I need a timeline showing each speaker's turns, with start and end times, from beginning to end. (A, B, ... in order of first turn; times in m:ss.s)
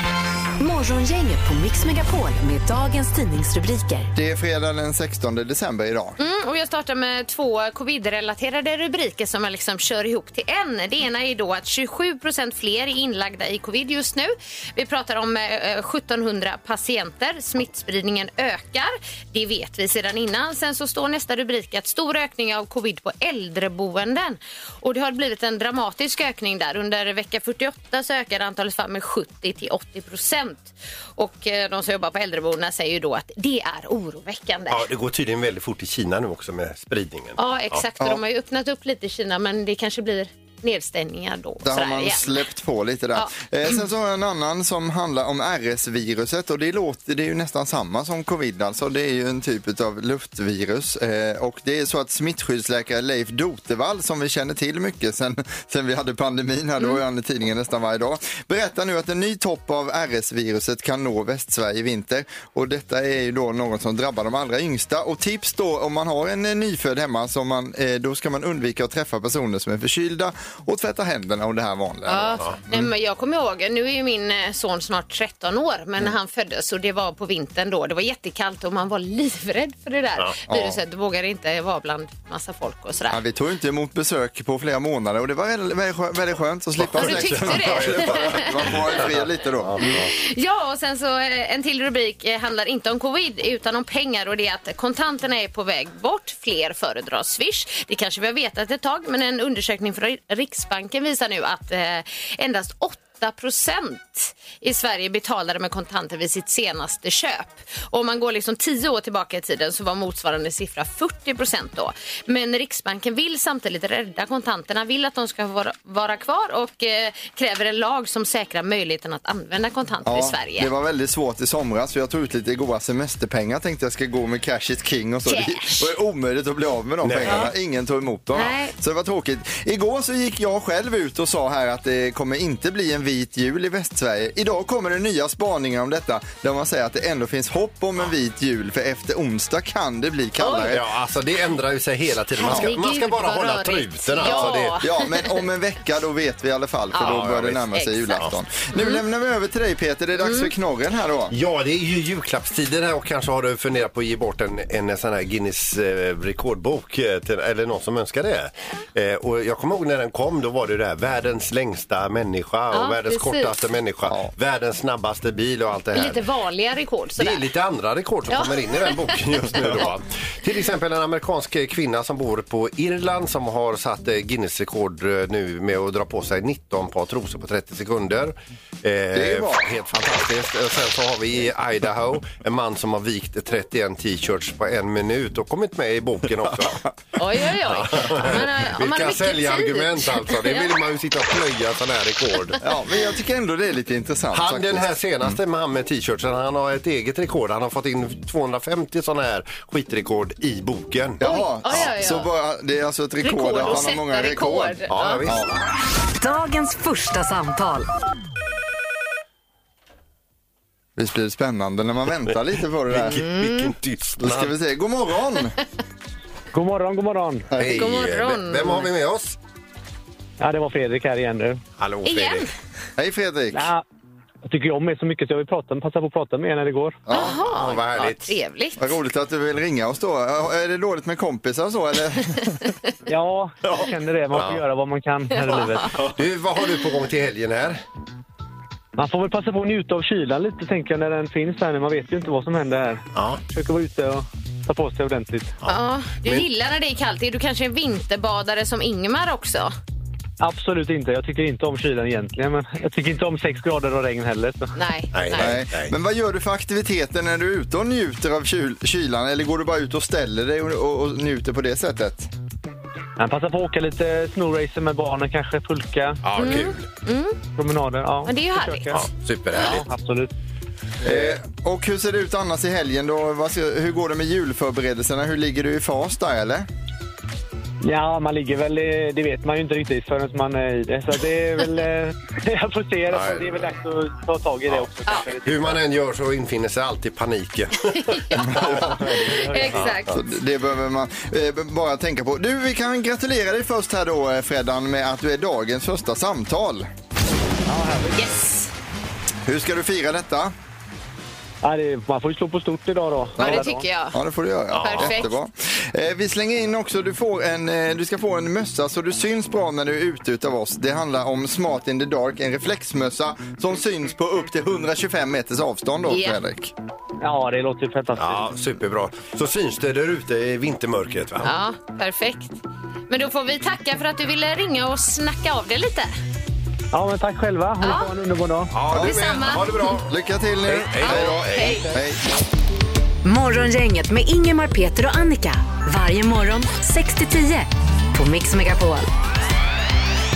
0:00.6-0:04.1 A
0:04.2-0:06.2 B
0:06.2-0:34.8 C
0:34.7-0:37.8 D
0:37.4-0:42.5 C
0:41.6-1:12.9 B
0:43.2-0:43.8 C
1:12.1-1:23.2 C
1:20.5-1:20.8 B
1:23.1-1:30.0 B
1:26.8-1:30.1 D
1:27.0-1:28.7 C
1:29.8-2:00.7 C
2:00.0-2:20.8 B
2:05.3-2:05.9 C
2:07.0-2:07.5 D
2:08.3-2:08.7 C
2:20.4-2:20.7 C
2:20.7-2:24.8 D
2:22.4-2:25.3 C
2:24.2-2:31.4 B
2:26.9-2:29.0 C
2:27.0-2:27.7 D
2:30.2-2:30.5 C
2:31.3-2:46.2 D
2:42.7-2:43.5 C
2:45.9-2:47.5 C
2:47.2-3:06.8 D
2:48.3-2:48.9 C
2:49.6-2:49.9 C
2:59.1-2:59.8 B
3:07.2-3:10.7 C
3:07.7-3:12.6 D
3:12.6-3:15.3 B
3:14.3-3:21.9 D
3:21.2-3:25.6 B
3:21.2-3:22.3 C
3:23.2-3:25.2 C
3:24.9-3:25.4 D
3:26.2-3:27.9 A
3:31.0-3:33.2 B
3:32.9-3:34.5 D
3:33.2-3:33.7 C
3:34.2-3:35.6 B
3:36.5-3:37.5 E
3:37.5-3:37.8 B
3:37.6-3:39.4 D
3:37.7-3:38.9 C
3:40.4-3:41.6 E
3:41.8-3:42.5 D
3:42.0-3:42.5 C
3:43.0-3:43.7 B
3:43.5-3:43.8 E
3:44.5-3:47.0 E
3:47.1-3:47.4 B
3:47.1-3:48.8 C
3:47.1-3:48.3 D
3:48.8-3:52.6 B
3:53.1-3:56.0 E
3:53.7-3:54.6 D
3:55.3-3:56.0 C
3:56.0-3:57.8 D
3:59.0-4:05.6 E
4:03.2-4:03.4 D
4:05.6-4:06.5 D
4:05.7-4:09.7 C
4:10.4-4:14.7 E
4:14.8-4:15.6 C
4:15.1-4:15.9 D
4:15.4-4:22.3 B
4:23.2-4:26.2 E
4:26.2-4:26.9 D
4:26.4-4:27.4 C
4:27.6-4:29.0 E
4:28.2-4:28.9 C
4:28.9-4:29.9 D
4:29.6-4:30.3 E
4:31.0-4:36.7 B
4:37.8-4:45.8 E
4:43.1-4:43.7 D
4:45.4-4:48.8 D
4:47.9-4:48.9 C
4:48.4-4:49.2 B
4:48.7-4:50.0 E
4:49.5-4:50.2 C
4:49.7-4:50.1 D
4:50.1-4:56.9 B
4:57.7-4:58.3 E
4:58.1-4:58.7 C
4:59.4-5:00.5 B
5:01.6-5:03.8 E
5:03.4-5:16.7 B
5:03.4-5:04.2 C
5:04.7-5:05.2 D
5:04.8-5:05.4 C
5:16.1-5:16.4 C
5:17.2-5:18.5 E
5:18.2-5:21.5 D
5:21.4-5:22.6 C
5:23.1-5:26.1 C
5:26.9-5:28.8 E
5:27.8-5:28.1 C
5:28.7-5:30.1 D
5:28.9-5:30.0 C
5:30.1-5:32.2 B
5:30.6-5:31.9 D
5:31.0-5:31.9 C
5:33.2-5:39.1 A